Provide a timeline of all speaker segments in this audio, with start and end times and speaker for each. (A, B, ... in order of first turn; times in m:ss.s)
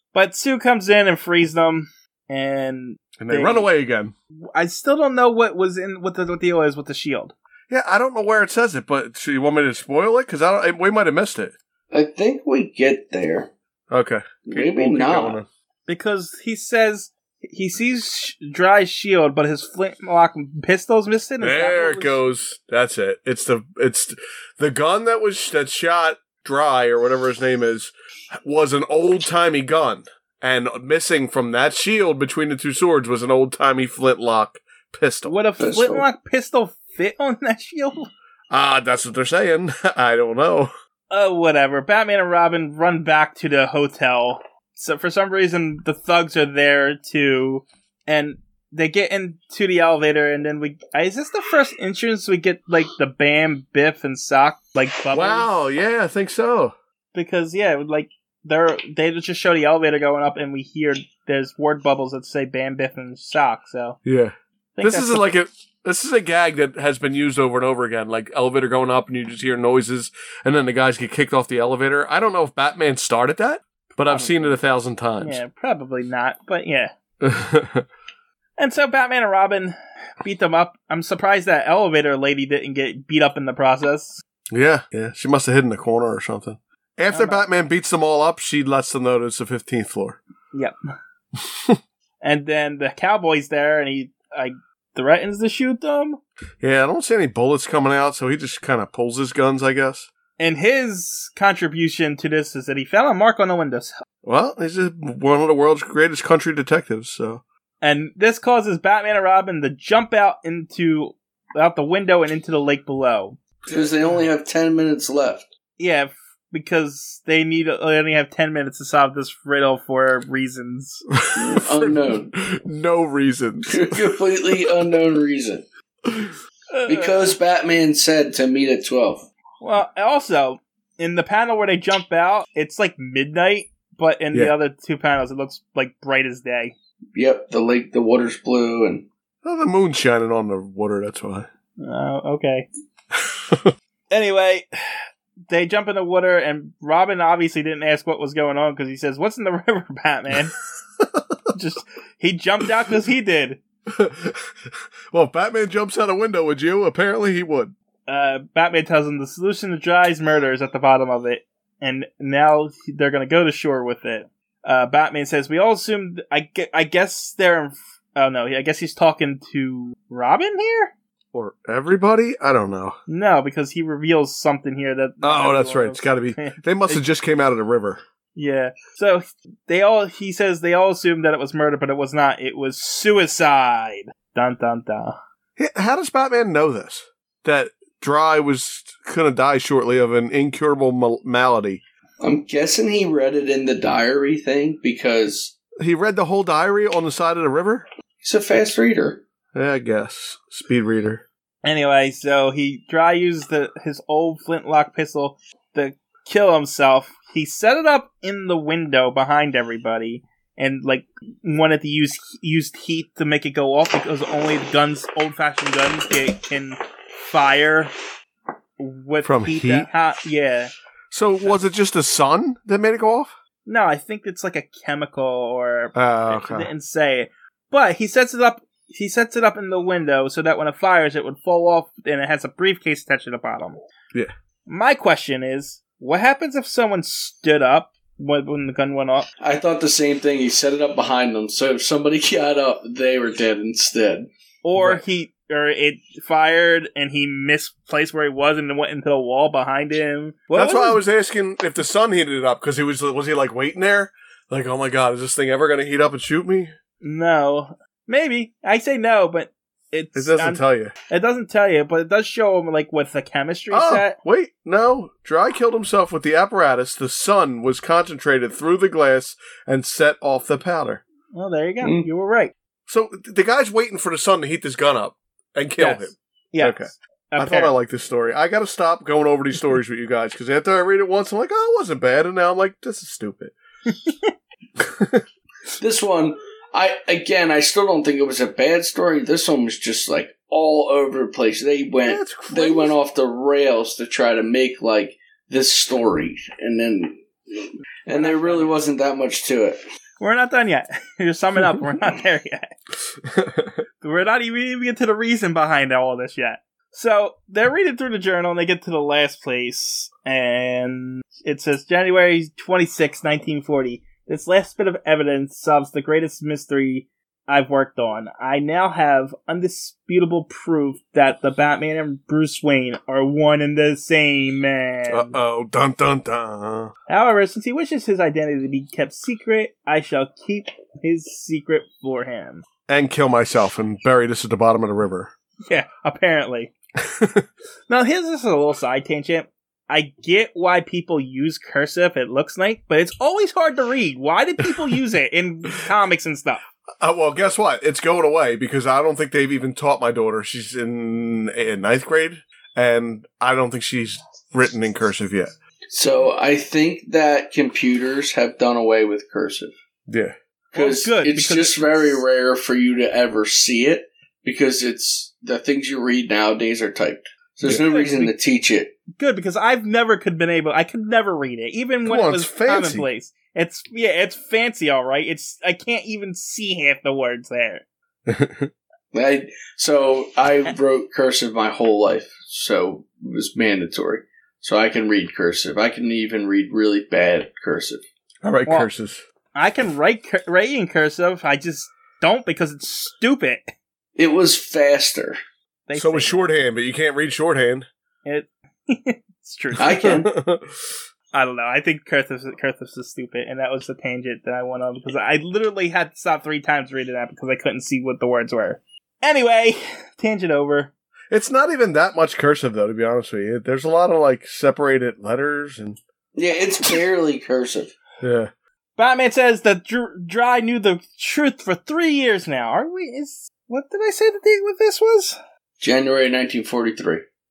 0:00.1-0:03.7 A
0:03.2-0:04.1 B
0:04.5-0:07.3 A
0:07.7-0:11.6 B
0:11.9-0:13.5 C
0:13.9-0:15.5 B
0:14.5-0:15.4 C
0:15.9-0:22.2 A
0:21.4-0:27.9 B
0:28.4-0:35.3 B
0:35.2-0:38.1 A
0:35.6-0:36.1 C
0:38.5-0:40.7 B
0:41.1-0:55.5 A
0:55.1-0:56.7 B
0:57.1-1:04.0 A
1:04.0-1:15.4 B
1:04.8-1:05.3 A
1:14.0-1:14.6 A
1:15.2-1:16.9 A
1:17.2-1:17.9 B
1:18.6-1:24.2 A
1:24.5-1:30.2 B
1:27.1-1:27.4 A
1:32.2-1:36.2 A
1:36.6-1:40.1 B
1:40.4-1:44.0 A
1:44.2-1:47.4 B
1:47.8-1:53.4 A
1:53.7-1:53.9 B
1:53.7-1:55.5 C
1:55.8-2:01.1 A
2:01.2-2:04.1 B
2:01.4-2:02.3 C
2:03.7-2:05.6 C
2:06.1-2:06.4 B
2:06.7-2:07.4 A
2:06.9-2:09.3 C
2:09.6-2:16.8 A
2:17.2-2:19.1 C
2:19.4-2:21.5 B
2:21.8-2:22.7 A
2:24.1-2:30.6 A
2:31.5-2:33.6 A
2:33.9-2:37.8 B
2:38.1-2:50.9 A
2:51.3-2:53.0 B
2:53.1-2:57.0 A
2:55.2-2:58.0 B
2:58.4-3:05.2 A
3:05.6-3:11.8 B
3:12.2-3:15.5 C
3:15.8-3:17.9 B
3:18.2-3:19.2 C
3:19.5-3:21.2 B
3:21.6-3:37.9 A
3:38.8-3:40.7 A
3:39.2-3:39.9 B
3:41.1-3:43.3 B
3:43.7-3:53.8 A
3:46.0-3:46.7 B
3:54.7-3:59.3 A
3:59.4-4:04.3 C
4:04.6-4:11.0 A
4:04.8-4:05.0 B
4:10.5-4:16.7 B
4:17.0-4:24.2 A
4:20.2-4:20.9 B
4:23.7-4:31.0 B
4:31.3-4:32.5 A
4:31.8-4:32.1 C
4:32.9-4:43.6 B
4:35.8-4:37.7 A
4:43.9-4:44.3 A
4:44.8-4:45.2 B
4:45.8-4:59.8 C
4:52.0-4:53.0 B
4:58.1-4:58.8 A
5:00.2-5:02.7 A
5:03.2-5:03.8 B
5:04.0-5:25.4 A
5:25.1-5:26.9 B
5:27.1-5:32.6 A
5:32.9-5:35.3 B
5:35.7-5:36.7 A
5:37.0-5:37.5 B
5:37.9-5:46.6 A
5:47.0-5:55.5 B
5:55.9-5:59.7 C
6:00.1-6:00.3 B
6:00.7-6:09.0 C
6:00.8-6:02.2 A
6:07.8-6:08.3 A
6:09.1-6:17.8 A
6:12.0-6:13.1 B
6:18.3-6:18.7 B
6:19.1-6:28.0 C
6:28.4-6:29.2 B
6:29.6-6:33.6 A
6:34.2-6:35.4 C
6:35.9-6:36.4 A
6:36.0-6:37.9 B
6:38.2-6:40.2 A
6:39.8-6:40.3 C
6:40.0-6:41.0 B
6:41.3-6:50.9 A
6:51.3-6:56.0 B
6:56.4-6:57.9 C
6:58.2-6:58.5 B
6:59.0-7:05.4 A
7:05.8-7:07.2 C